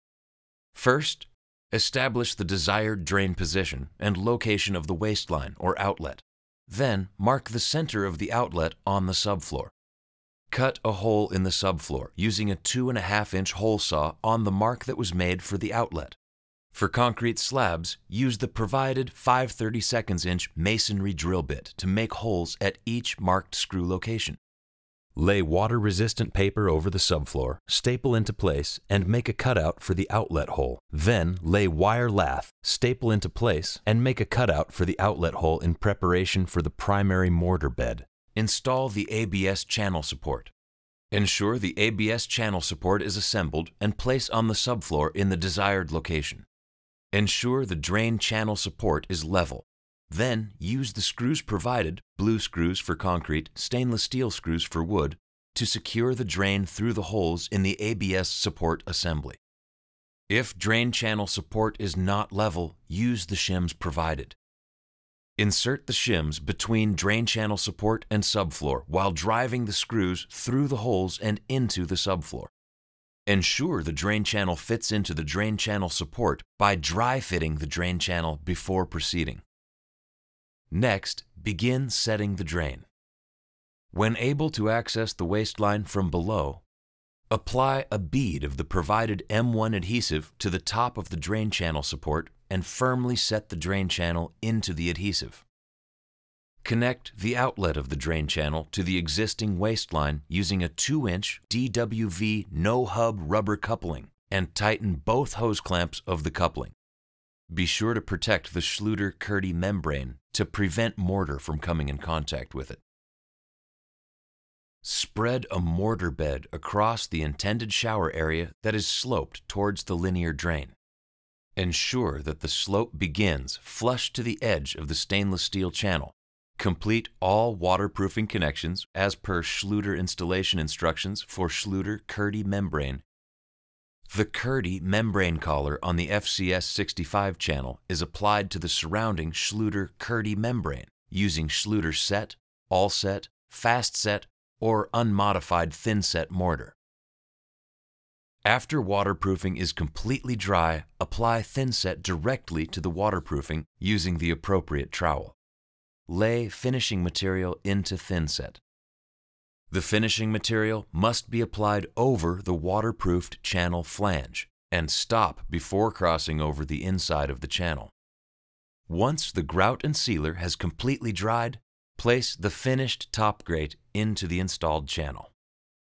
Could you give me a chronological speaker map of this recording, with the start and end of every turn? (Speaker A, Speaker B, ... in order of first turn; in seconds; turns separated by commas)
Speaker A: 0.7-9.7, Speaker A: 10.5-16.2, Speaker A: 16.7-24.4, Speaker A: 25.2-40.5, Speaker A: 41.1-46.5, Speaker A: 47.1-59.4, Speaker A: 60.3-64.4, Speaker A: 65.4-72.5, Speaker A: 73.3-79.4, Speaker A: 80.7-82.9, Speaker A: 83.9-86.6, Speaker A: 87.3-95.5, Speaker A: 96.6-106.8, Speaker A: 107.5-112.8, Speaker A: 114.8-120.8, Speaker A: 121.6-133.0, Speaker A: 134.1-146.8, Speaker A: 148.4-155.4, Speaker A: 156.1-158.6, Speaker A: 159.7-167.9, Speaker A: 168.9-175.3